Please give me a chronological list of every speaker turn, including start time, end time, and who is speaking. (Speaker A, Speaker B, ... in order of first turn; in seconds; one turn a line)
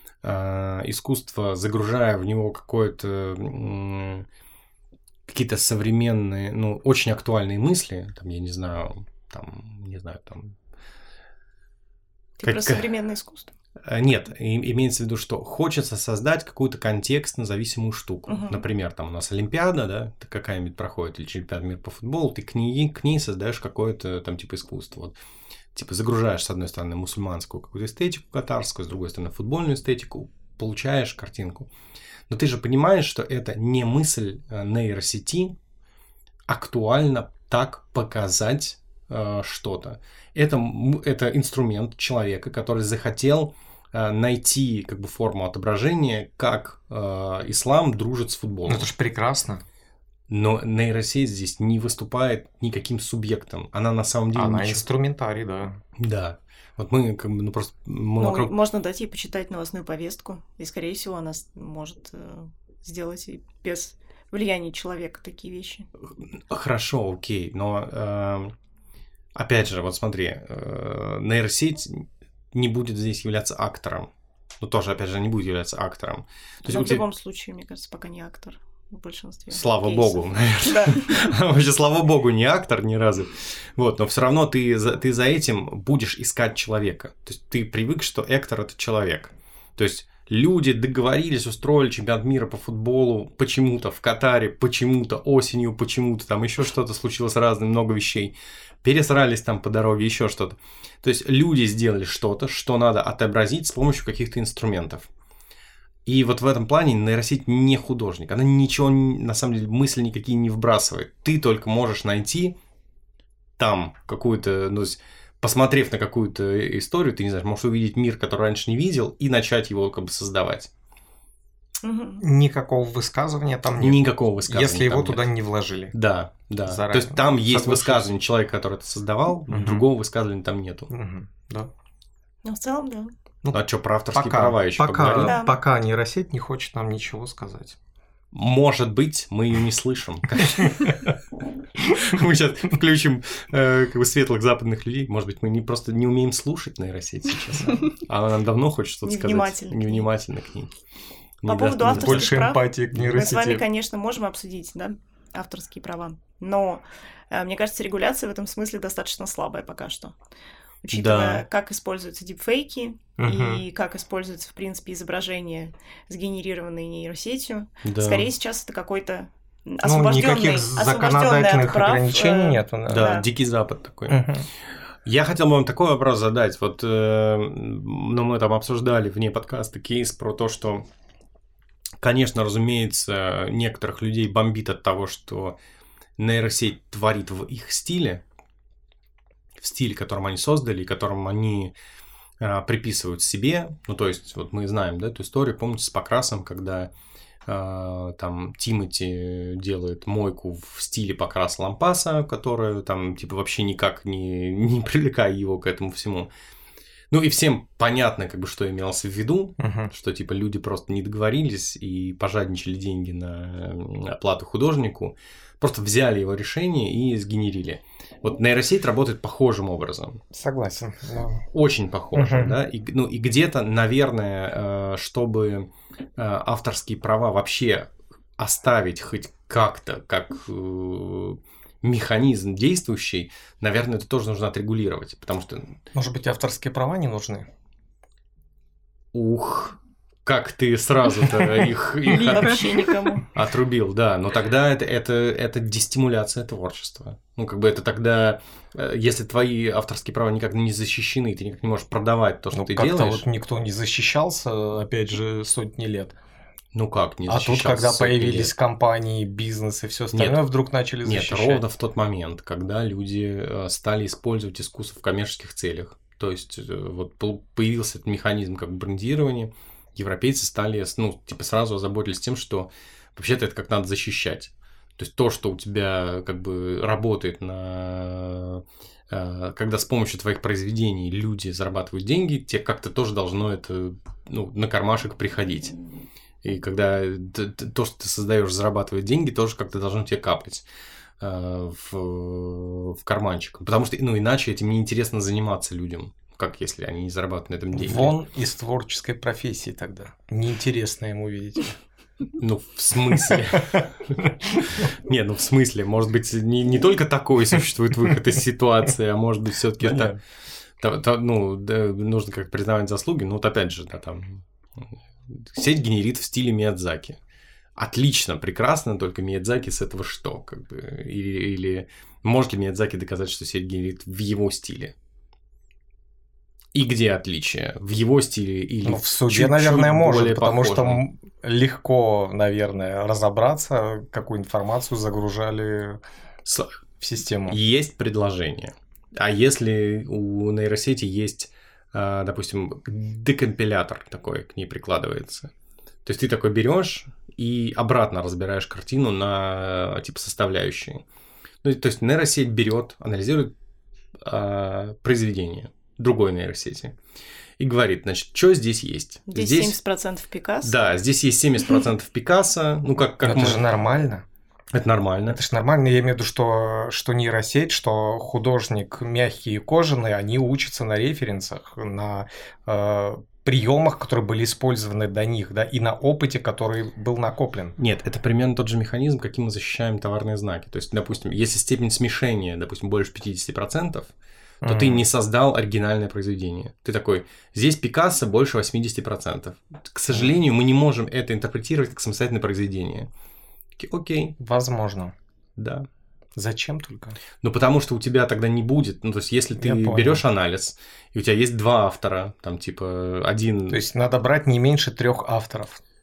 Speaker A: 0.2-4.3
Speaker A: 5.3-10.6
Speaker B: 12.4-13.5
Speaker A: 12.4-12.9
Speaker A: 13.8-25.2
Speaker B: 18.3-18.6
Speaker A: 25.7-31.7
Speaker A: 32.3-35.6
Speaker A: 36.5-48.9
Speaker C: 48.7-49.6
Speaker A: 50.3-54.8
Speaker C: 54.4-55.8
Speaker A: 56.0-58.5
Speaker B: 58.2-65.9
Speaker A: 66.1-68.5
Speaker A: 69.3-77.0
Speaker B: 76.7-81.1
Speaker A: 79.5-105.1
Speaker A: 106.1-112.6
Speaker A: 113.6-120.7
Speaker B: 121.8-122.2
Speaker C: 122.2-126.0
Speaker A: 123.8-125.3
Speaker A: 125.9-130.9
Speaker C: 126.7-128.1
Speaker C: 129.5-129.9
Speaker C: 130.9-131.7
Speaker B: 132.4-133.1
Speaker A: 133.5-135.4
Speaker C: 134.1-137.8
Speaker B: 135.2-135.6
Speaker A: 138.3-141.1
Speaker A: 141.8-150.7
Speaker B: 149.0-150.1
Speaker A: 151.4-152.4
Speaker B: 151.5-160.1
Speaker C: 151.9-153.6
Speaker B: 160.8-173.3
Speaker A: 160.9-161.5
Speaker C: 163.2-163.6
Speaker A: 167.8-168.3
Speaker C: 169.8-173.2
Speaker A: 172.9-174.2
Speaker C: 174.1-174.5
Speaker A: 175.1-180.9
Speaker A: 182.0-185.6
Speaker A: 186.2-188.2
Speaker A: 189.6-191.7
Speaker A: 192.4-196.9
Speaker A: 197.5-206.3
Speaker A: 207.1-220.2
Speaker C: 209.6-209.9
Speaker C: 220.3-221.5
Speaker A: 221.5-235.8
Speaker C: 222.1-222.6
Speaker C: 235.9-237.5
Speaker A: 239.1-242.8
Speaker B: 242.1-243.3
Speaker A: 243.3-253.2
Speaker C: 252.5-256.1
Speaker A: 256.7-258.5
Speaker C: 257.3-261.6
Speaker A: 260.1-260.4
Speaker A: 261.1-285.8
Speaker A: 286.4-290.6
Speaker A: 291.2-298.1
Speaker C: 297.7-301.8
Speaker A: 302.4-304.2
Speaker A: 304.8-310.2
Speaker C: 309.8-310.2
Speaker A: 310.8-317.2
Speaker A: 317.8-324.9
Speaker A: 326.7-331.0
Speaker C: 328.9-336.0
Speaker A: 336.4-336.7
Speaker C: 337.0-337.6
Speaker A: 337.5-345.5
Speaker A: 346.1-351.0
Speaker A: 351.6-353.5
Speaker A: 354.2-357.0
Speaker A: 357.6-359.8
Speaker B: 359.3-360.8
Speaker A: 360.6-363.6
Speaker C: 363.2-364.3
Speaker A: 364.7-365.4
Speaker C: 365.3-377.8
Speaker A: 377.8-393.1
Speaker C: 384.6-385.1
Speaker A: 393.8-394.4
Speaker C: 394.4-395.1
Speaker A: 395.6-395.9
Speaker C: 396.4-397.2
Speaker A: 397.4-403.8
Speaker C: 399.6-400.2
Speaker C: 403.7-405.8